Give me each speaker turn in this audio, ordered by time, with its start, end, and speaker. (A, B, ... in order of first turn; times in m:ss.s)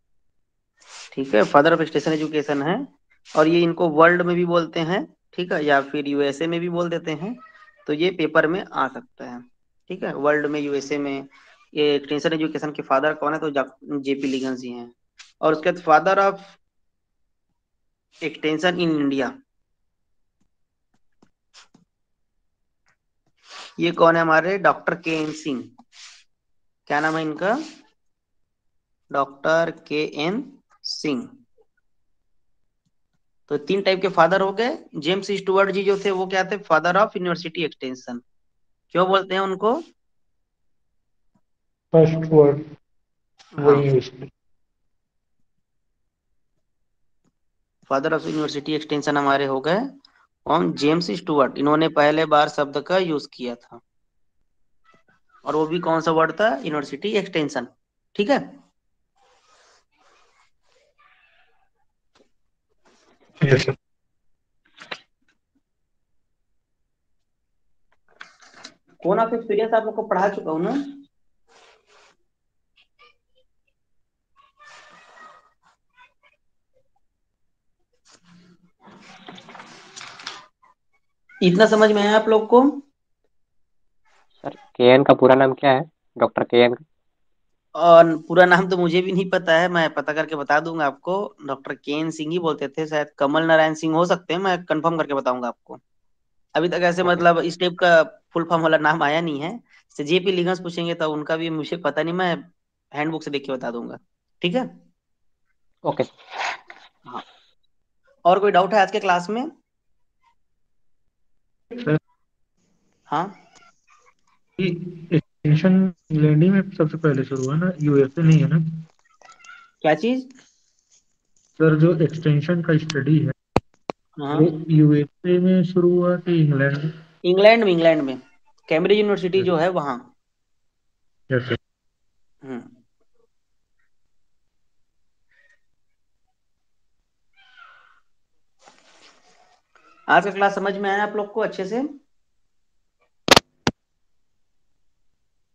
0:01.1-0:16.6 A
0:18.2-0:19.3 A
0:23.8-0:25.7 A
0:26.9-0:27.6 A
0:29.1-0:31.3 A
0:33.5-0:38.2 A
0:38.9-0:39.8 A
0:41.9-0:42.6 B
0:43.6-0:43.9 A
0:43.6-0:44.3 B
0:47.9-0:49.9 A
0:50.4-0:53.8 A
0:55.4-0:58.5 A
1:03.4-1:03.7 B
1:09.0-1:10.9 A
1:21.4-1:22.8 A
1:24.4-1:26.8 C
1:27.8-1:35.8 A
1:36.6-1:44.7 A
1:48.2-1:49.5 A
1:53.1-1:53.4 A
1:54.6-1:58.8 B
1:59.8-2:00.3 A
2:01.6-2:03.3 B
2:04.2-2:04.5 A
2:04.3-2:06.9 B
2:07.2-2:10.1 A
2:11.3-2:11.6 B
2:12.4-2:12.7 A
2:20.1-2:21.9 A